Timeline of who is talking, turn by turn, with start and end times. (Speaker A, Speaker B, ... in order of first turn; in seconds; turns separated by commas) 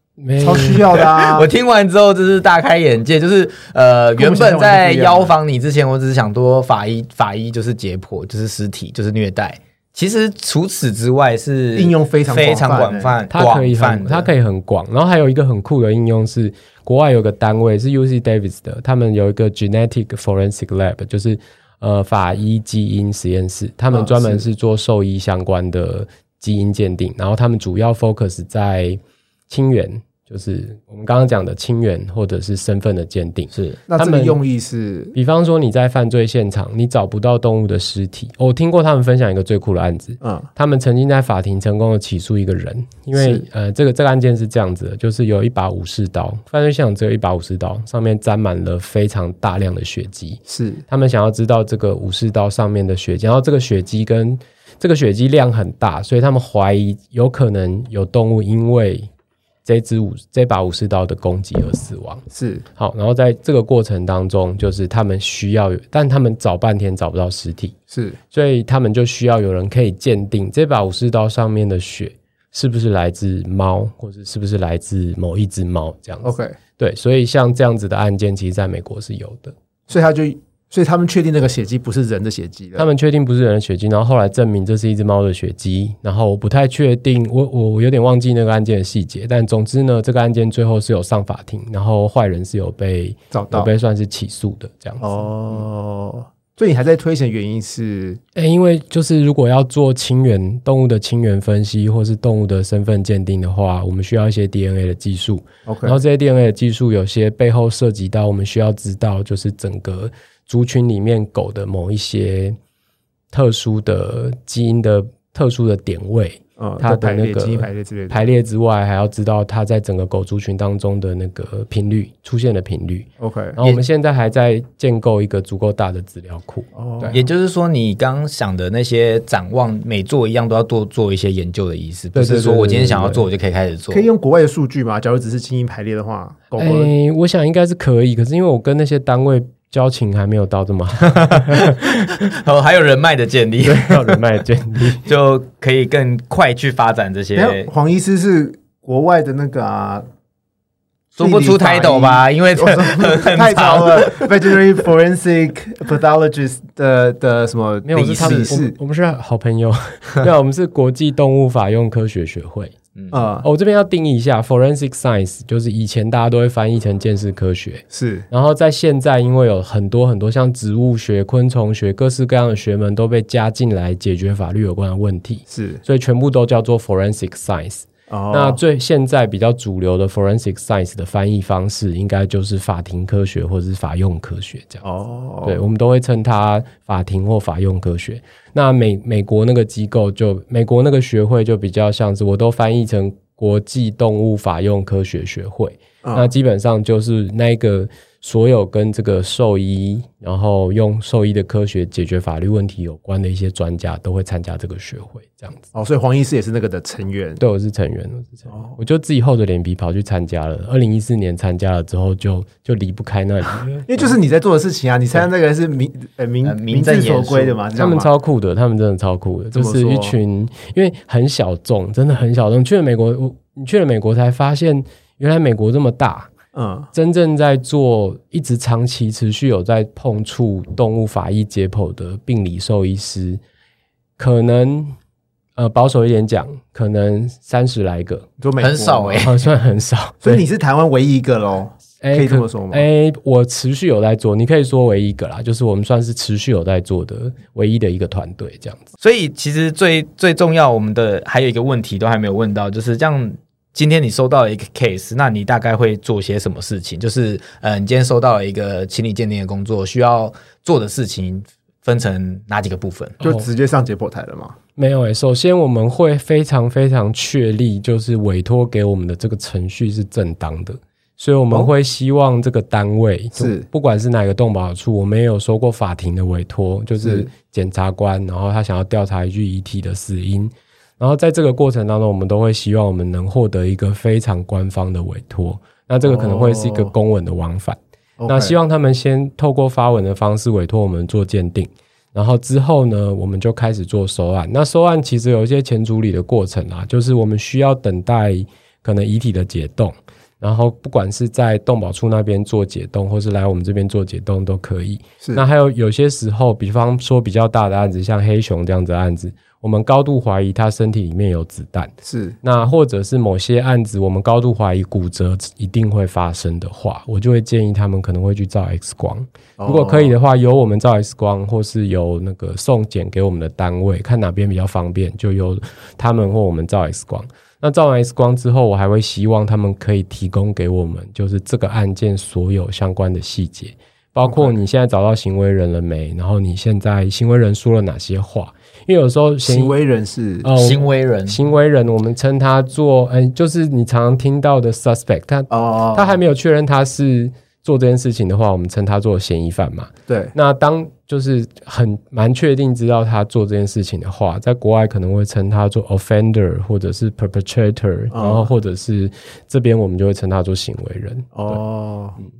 Speaker A: 0.2-0.9, Speaker B: 0.4-1.5, Speaker C: 0.8-14.3, Speaker B: 4.2-5.3, Speaker B: 11.8-13.2, Speaker A: 13.3-34.4, Speaker B: 23.9-24.4, Speaker C: 33.5-33.8, Speaker B: 33.9-35.1, Speaker A: 35.1-59.1, Speaker B: 40.2-40.5, Speaker B: 43.1-43.4, Speaker B: 50.5-50.8, Speaker A: 59.6-62.2, Speaker B: 62.3-62.6, Speaker A: 62.8-67.7, Speaker B: 67.9-68.2, Speaker A: 68.3-79.5, Speaker B: 76.2-76.5, Speaker B: 79.9-82.9, Speaker A: 82.8-95.6, Speaker B: 93.3-93.7, Speaker B: 95.0-98.2, Speaker A: 98.3-112.6, Speaker B: 105.7-106.0, Speaker A: 113.3-127.2, Speaker B: 116.6-118.3, Speaker B: 123.2-123.6, Speaker B: 126.7-127.2, Speaker C: 127.1-134.0, Speaker A: 132.1-133.2, Speaker B: 133.9-136.9, Speaker A: 136.6-142.2, Speaker C: 141.0-144.2, Speaker A: 143.6-145.1, Speaker C: 145.0-147.7, Speaker B: 147.3-150.1, Speaker C: 151.2-154.5, Speaker B: 151.2-158.7, Speaker A: 157.8-162.7, Speaker C: 157.9-158.5, Speaker C: 162.9-163.2, Speaker B: 163.1-163.4, Speaker A: 163.4-184.8, Speaker B: 167.9-168.2, Speaker B: 175.5-175.8, Speaker B: 178.1-178.6, Speaker B: 184.8-185.6, Speaker A: 185.4-205.7, Speaker B: 196.0-196.3, Speaker B: 205.7-207.4, Speaker A: 207.4-214.1, Speaker B: 208.5-208.7, Speaker B: 213.8-218.1, Speaker C: 216.4-217.6, Speaker A: 217.7-226.3, Speaker B: 219.5-220.2, Speaker B: 226.5-226.9, Speaker A: 226.9-233.4, Speaker A: 234.2-234.9, Speaker A: 235.6-238.3, Speaker B: 238.4-239.3, Speaker C: 238.6-239.3, Speaker A: 239.2-240.4, Speaker B: 240.2-242.8, Speaker A: 242.0-248.9, Speaker C: 249.0-263.2, Speaker A: 263.2-263.5, Speaker B: 263.2-264.6, Speaker A: 264.8-311.9, Speaker B: 273.4-273.6, Speaker B: 277.0-277.3, Speaker B: 286.0-286.9, Speaker B: 288.2-288.5, Speaker B: 312.0-312.4, Speaker A: 312.4-339.7, Speaker B: 319.6-320.1, Speaker B: 334.2-334.5, Speaker B: 339.4-340.5, Speaker A: 340.4-361.6, Speaker C: 340.6-341.4, Speaker B: 345.5-346.2, Speaker B: 350.1-350.3, Speaker B: 358.1-358.5, Speaker B: 361.3-362.2